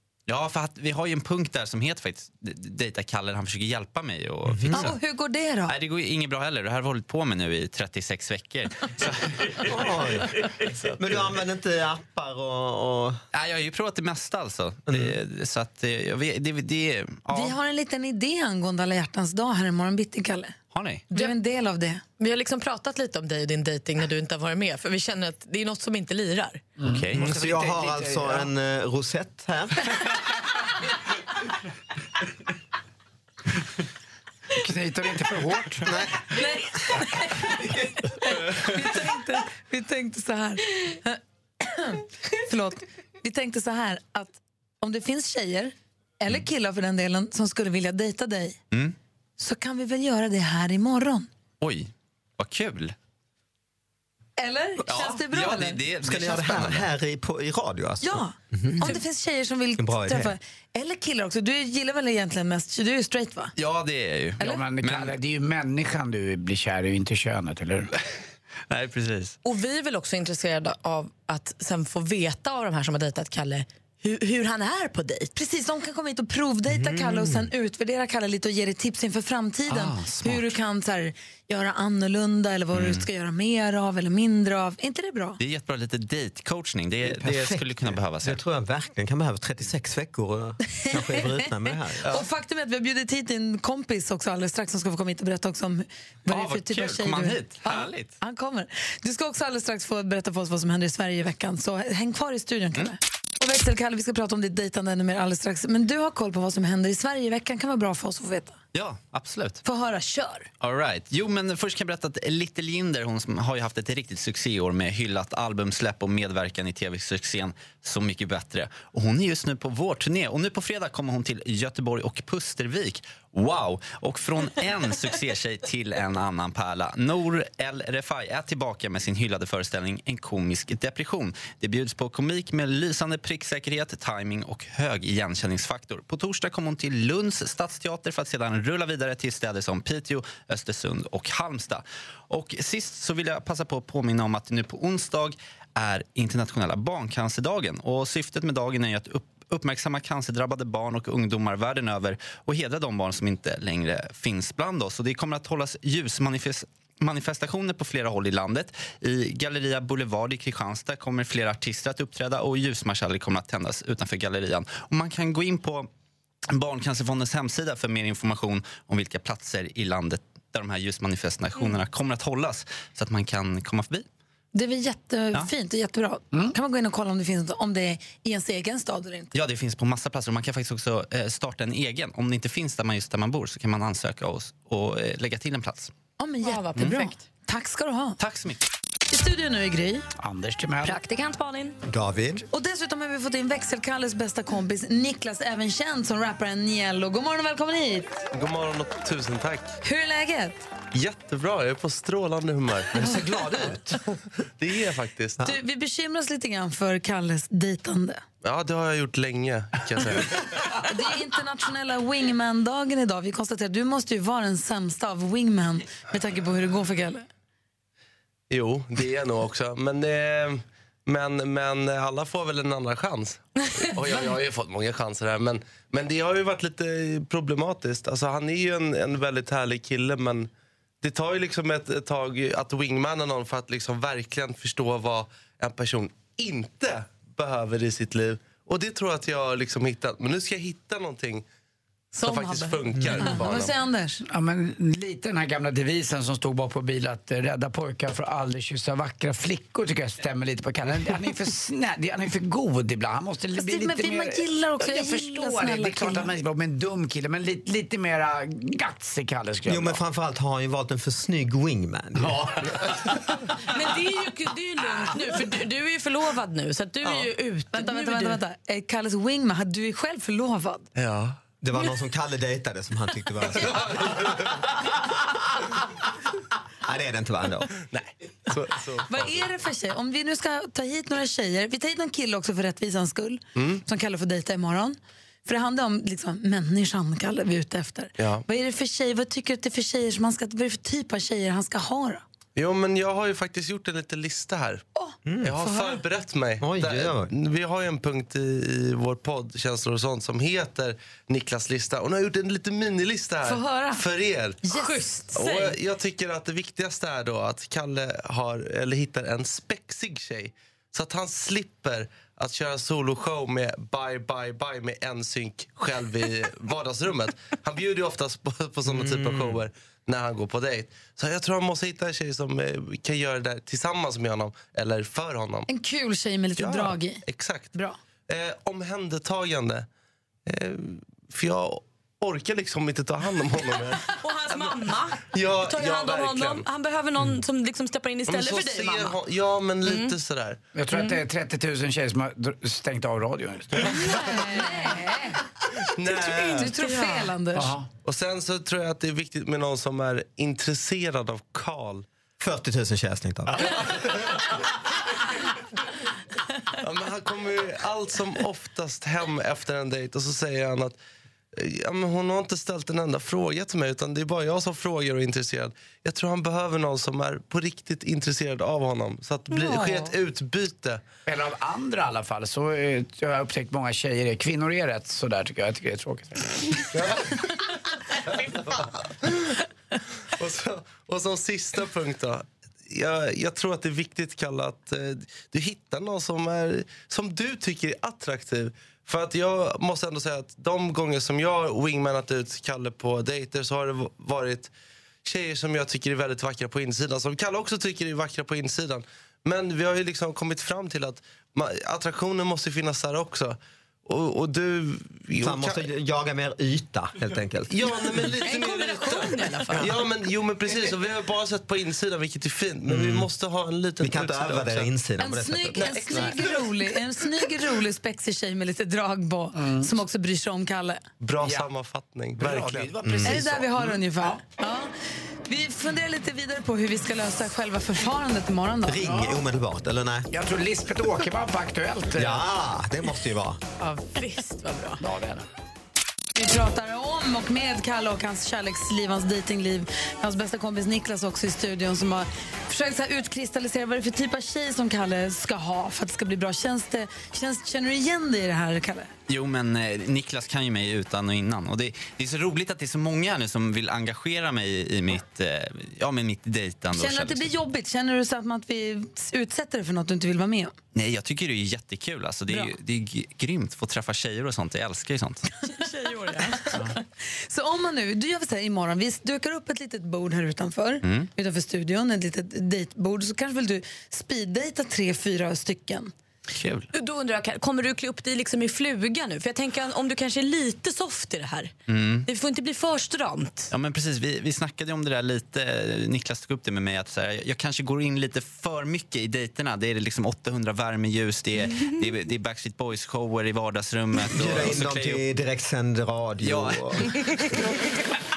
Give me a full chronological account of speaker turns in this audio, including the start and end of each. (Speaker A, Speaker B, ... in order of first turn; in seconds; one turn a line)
Speaker A: 0.3-5.0
Speaker B: 4.5-4.8
Speaker C: 4.7-5.7
Speaker A: 5.7-9.8
Speaker B: 9.6-13.2
Speaker A: 10.4-10.7
Speaker A: 13.3-17.6
Speaker B: 14.9-15.2
Speaker C: 17.3-20.6
Speaker A: 20.7-21.1
Speaker C: 21.1-22.0
Speaker D: 22.2-26.6
Speaker E: 26.8-28.5
Speaker A: 26.9-27.3
Speaker B: 27.1-29.9
Speaker E: 34.5-35.9
Speaker B: 35.9-36.2
Speaker C: 36.3-48.6
Speaker C: 49.4-51.3
Speaker A: 51.6-53.0
Speaker C: 54.4-55.9
Speaker A: 54.9-56.9
Speaker B: 56.0-59.0
Speaker C: 58.0-63.5
Speaker B: 59.8-60.3
Speaker A: 63.6-65.1
Speaker E: 64.4-67.9
Speaker A: 68.7-69.4
Speaker D: 69.4-75.3
Speaker C: 75.3-85.4
Speaker B: 76.8-77.4
Speaker A: 79.7-80.5
Speaker A: 82.7-83.1
Speaker A: 85.4-88.4
Speaker B: 87.0-92.1
Speaker C: 90.8-91.3
Speaker C: 92.1-108.6
Speaker A: 96.3-98.1
Speaker A: 108.7-109.6
Speaker C: 109.6-110.5
Speaker A: 110.6-165.9
Speaker A: 166.5-174.1
Speaker C: 174.5-179.3
Speaker A: 179.3-185.9
Speaker C: 186.2-188.2
Speaker D: 186.4-187.2
Speaker A: 188.2-188.6
Speaker C: 189.1-190.1
Speaker E: 190.2-191.0
Speaker D: 190.8-191.8
Speaker B: 191.9-192.4
Speaker C: 192.5-198.1
Speaker F: 198.3-199.8
Speaker C: 199.8-200.6
Speaker F: 200.9-203.0
Speaker B: 202.9-204.2
Speaker F: 204.6-205.4
Speaker C: 205.4-208.2
Speaker F: 208.4-210.3
Speaker C: 210.8-217.3
Speaker F: 218.5-230.5
Speaker F: 231.0-241.4
Speaker D: 242.1-243.3
Speaker F: 242.2-243.7
Speaker C: 243.2-244.2
Speaker E: 244.3-260.0
Speaker C: 253.6-256.3
Speaker B: 259.7-262.9
Speaker D: 263.7-268.4
Speaker C: 267.7-270.9
Speaker F: 271.0-271.4
Speaker B: 271.6-274.7
Speaker B: 276.8-277.7
Speaker F: 277.9-279.5
Speaker C: 279.1-292.2
Speaker F: 283.6-283.8
Speaker F: 288.2-288.4
Speaker F: 292.6-294.8
Speaker C: 295.0-296.0
Speaker B: 295.2-295.6
Speaker F: 295.4-304.6
Speaker B: 296.6-297.3
Speaker C: 303.4-304.0
Speaker C: 304.7-305.1
Speaker D: 304.7-305.8
Speaker F: 305.3-325.7
Speaker B: 318.9-319.5
Speaker C: 325.7-328.0
Speaker F: 326.6-327.7
Speaker F: 328.3-329.9
Speaker F: 330.5-334.8
Speaker D: 334.1-339.2
Speaker F: 335.3-336.7
Speaker F: 338.3-340.6
Speaker D: 339.9-340.2
Speaker E: 340.8-344.2
Speaker D: 340.9-341.2
Speaker D: 343.9-344.9
Speaker C: 344.2-345.4
Speaker F: 346.0-346.7
Speaker D: 346.1-347.4
Speaker C: 346.2-347.8
Speaker E: 347.6-347.9
Speaker F: 348.0-352.1
Speaker B: 352.4-354.2
Speaker F: 353.7-354.1
Speaker F: 356.8-361.0
Speaker F: 361.6-371.0
Speaker D: 369.5-370.1
Speaker E: 371.3-376.9
Speaker F: 376.9-377.4
Speaker F: 378.5-379.5
Speaker F: 380.4-394.7
Speaker F: 395.2-405.8
Speaker B: 405.4-408.3
Speaker F: 407.7-414.9
Speaker D: 408.4-410.0
Speaker B: 412.9-413.3
Speaker B: 414.0-416.4
Speaker C: 415.2-421.1
Speaker F: 415.7-416.6
Speaker E: 419.6-420.0
Speaker F: 421.2-423.0
Speaker E: 421.4-421.7
Speaker E: 422.4-423.8
Speaker B: 423.0-423.5
Speaker C: 423.2-424.9
Speaker C: 425.5-429.2
Speaker B: 428.9-430.3
Speaker E: 429.0-429.4
Speaker E: 430.3-432.5
Speaker B: 432.1-433.6
Speaker D: 433.8-435.0
Speaker E: 435.0-435.5
Speaker C: 436.4-449.1
Speaker A: 449.3-457.5
Speaker C: 456.9-460.7
Speaker A: 460.9-465.5
Speaker D: 465.6-466.8
Speaker C: 466.7-476.1
Speaker A: 471.0-471.3
Speaker A: 476.5-476.9
Speaker D: 476.9-481.7
Speaker A: 481.9-482.3
Speaker D: 482.3-483.7
Speaker A: 483.7-495.3
Speaker B: 494.2-497.6
Speaker A: 496.4-497.7